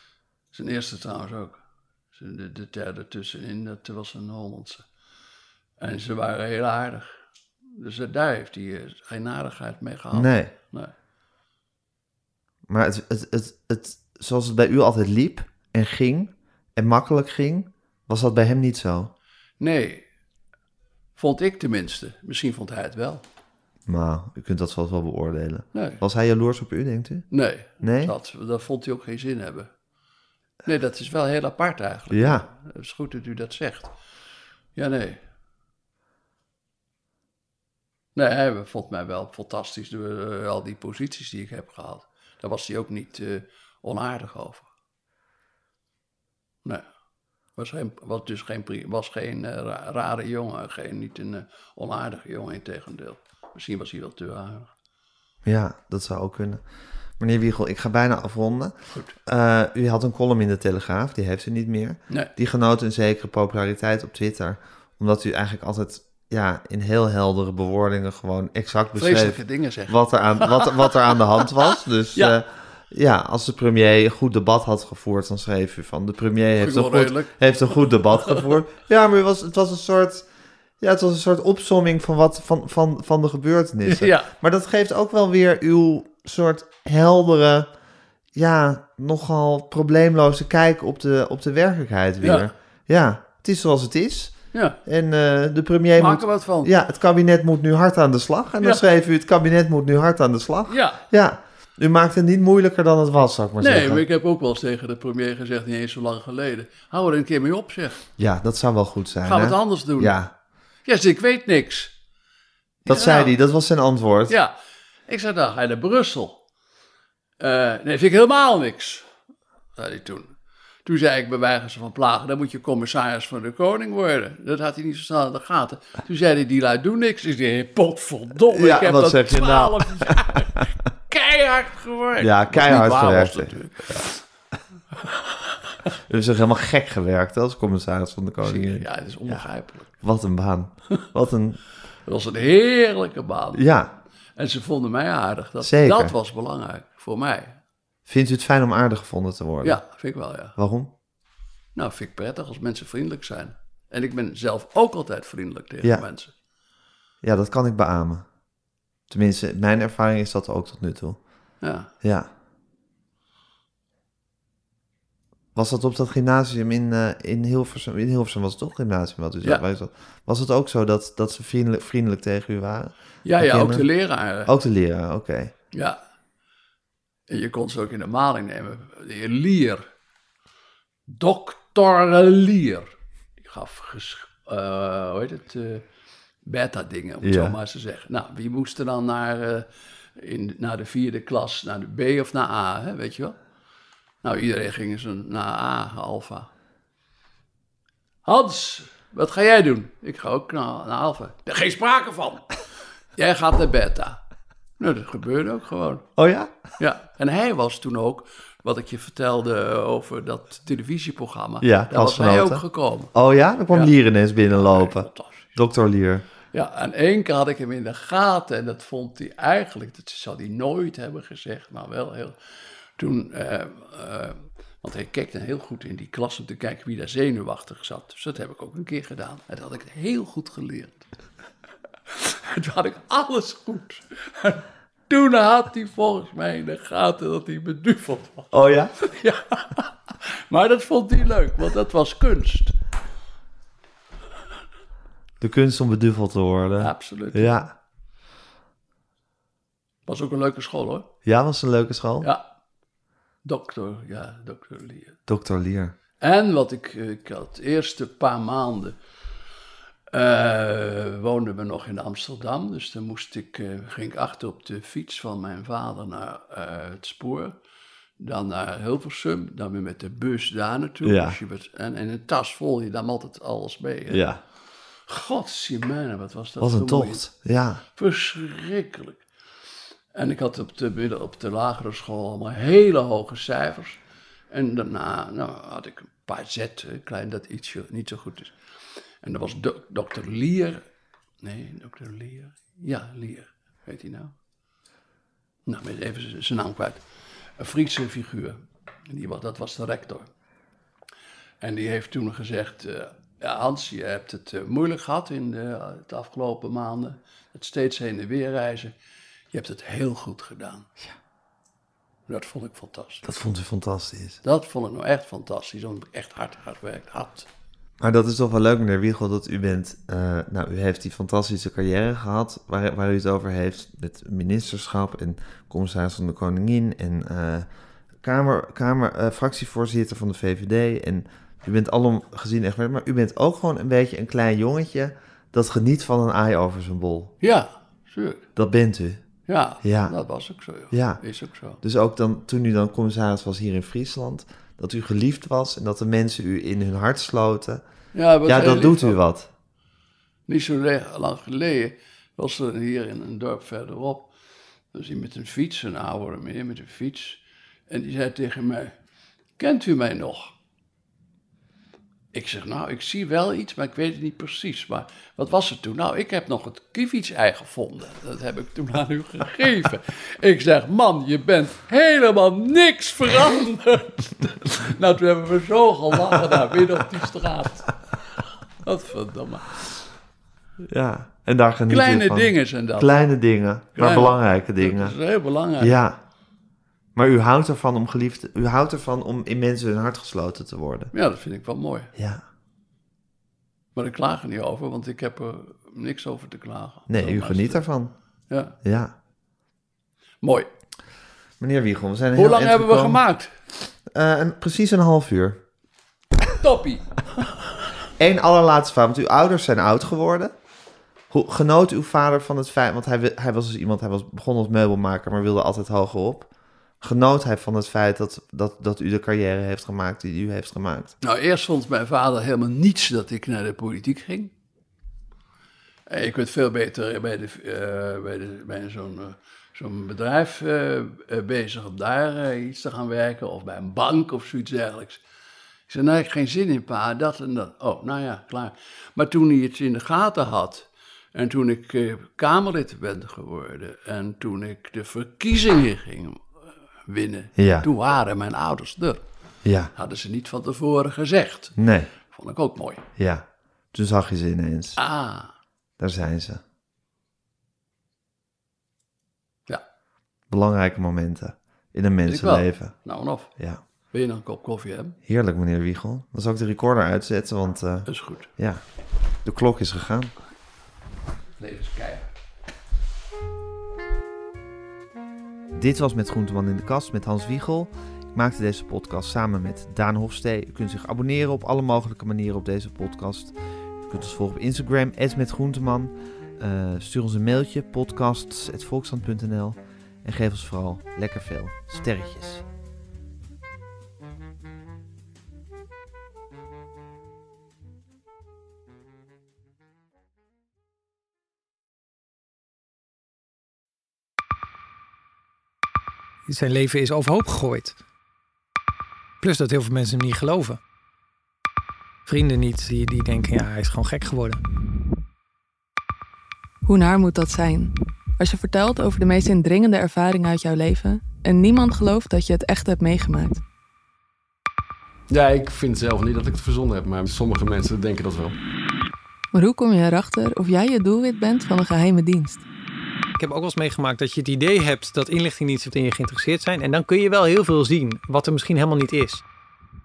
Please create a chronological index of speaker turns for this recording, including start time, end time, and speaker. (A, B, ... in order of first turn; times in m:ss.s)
0:00.5-0:01.6 A
0:02.1-0:04.8 A
0:05.8-0:07.1 A
0:07.8-0:10.9 A
0:10.1-0:10.5 B
0:12.7-0:19.1 B
0:19.6-0:20.1 A
0:21.2-0:23.2 A
0:23.9-0:28.1 B
0:25.7-0:26.0 A
0:27.3-0:29.7 A
0:30.6-0:34.0 A
0:32.1-0:32.5 B
0:34.8-0:35.2 A
0:38.2-0:44.7 A
0:47.6-0:54.7 A
0:55.4-0:56.6 B
0:57.2-1:20.3 B
1:09.0-1:12.4 A
1:16.6-1:18.5 A
1:20.8-1:27.7 B
1:23.8-1:24.3 A
1:28.3-1:44.0 B
1:32.2-1:32.5 A
1:34.5-1:34.8 A
1:36.0-1:36.7 A
1:40.7-1:41.0 A
1:43.6-1:48.0 A
1:48.2-1:50.3 B
1:49.2-1:50.2 A
1:50.8-1:51.9 A
1:52.8-1:53.4 A
1:52.8-1:54.4 B
1:55.1-1:56.4 A
1:57.4-1:59.1 A
1:59.8-2:00.3 A
2:00.8-2:14.2 A
2:08.5-2:10.3 B
2:12.2-2:13.6 B
2:16.1-2:21.6 B
2:18.4-2:19.9 A
2:22.0-2:23.7 A
2:23.5-2:23.9 B
2:24.4-2:27.6 A
2:25.6-2:26.1 B
2:28.1-2:29.9 B
2:29.6-2:30.6 A
2:30.5-2:30.9 B
2:31.8-2:36.3 A
2:37.2-2:38.3 B
2:39.1-2:41.2 B
2:41.6-2:41.9 A
2:42.0-2:42.3 B
2:45.6-2:55.5 B
2:53.2-2:54.5 A
2:55.7-2:56.0 A
2:57.3-2:59.8 A
3:01.1-3:05.8 A
3:06.4-3:13.4 A
3:07.2-3:07.6 B
3:14.2-3:16.5 A
3:18.2-3:22.5 A
3:23.2-3:24.2 A
3:24.8-3:26.1 A
3:26.2-3:26.6 B
3:26.8-3:33.1 A
3:31.6-3:36.2 B
3:34.5-3:35.6 A
3:36.5-3:42.4 A
3:43.0-3:51.0 A
3:52.1-4:02.8 A
3:58.5-3:58.9 B
4:05.4-4:07.7 B
4:06.8-4:07.5 A
4:10.1-4:11.1 A
4:11.2-4:12.3 B
4:13.4-4:15.2 A
4:15.3-4:16.0 B
4:16.2-4:19.0 A
4:20.1-4:27.6 A
4:28.2-4:34.2 A
4:31.0-4:31.4 B
4:34.1-4:34.4 B
4:35.1-4:37.3 A
4:36.6-4:37.8 B
4:38.0-4:39.2 A
4:40.1-4:48.5 A
4:49.2-4:50.8 A
4:51.4-4:54.3 A
4:55.7-4:57.0 A
4:57.6-5:00.3 A
5:01.6-5:08.9 A
5:09.5-5:10.9 A
5:12.3-5:13.2 A
5:13.2-5:14.4 B
5:14.4-5:17.5 A
5:18.0-5:27.7 B
5:28.2-5:37.3 B
5:37.4-5:38.4 A
5:38.6-5:39.2 B
5:39.5-5:41.8 A
5:39.8-5:40.1 B
5:40.9-5:41.2 B
5:41.8-5:47.8 B
5:48.1-5:49.2 A
5:48.4-5:49.5 B
5:50.5-5:54.3 A
5:54.9-5:58.9 A
5:59.6-6:00.5 A
6:02.3-6:18.0 A
6:18.8-6:20.0 A
6:20.8-6:25.2 B
6:21.9-6:23.2 A
6:24.0-6:26.0 A
6:25.8-6:26.2 B
6:27.2-6:31.1 B
6:31.1-6:32.1 A
6:32.2-6:32.4 B
6:34.0-6:37.9 A
6:37.1-6:38.1 B
6:38.5-6:38.8 A
6:38.8-6:39.1 B
6:40.4-6:40.7 A
6:41.6-6:43.2 B
6:42.4-6:43.5 A
6:44.1-6:45.6 B
6:46.6-6:47.5 A
6:48.2-6:50.6 B
6:51.3-6:56.5 B
6:57.0-7:01.1 B
7:01.2-7:04.5 A
7:06.1-7:15.2 A
7:15.9-7:26.5 A
7:27.1-7:29.2 A
7:27.6-7:27.9 B
7:29.6-7:29.9 B
7:30.0-7:31.8 A
7:31.8-7:32.1 B
7:32.3-7:33.0 A
7:33.2-7:35.0 B
7:35.0-7:35.5 A
7:36.0-7:36.6 B
7:40.5-7:43.0 B
7:42.3-7:43.5 A
7:44.1-7:45.2 A
7:45.3-7:48.8 B
7:48.1-7:48.5 A
7:49.4-7:50.3 B
7:51.6-7:52.3 A
7:55.7-8:12.6 B
8:26.5-8:28.0 C
8:29.4-8:30.8 C
8:32.3-8:34.6 C
8:36.8-8:43.6 D
8:45.3-8:48.6 E
8:49.5-8:52.6 D
8:53.4-8:59.4 C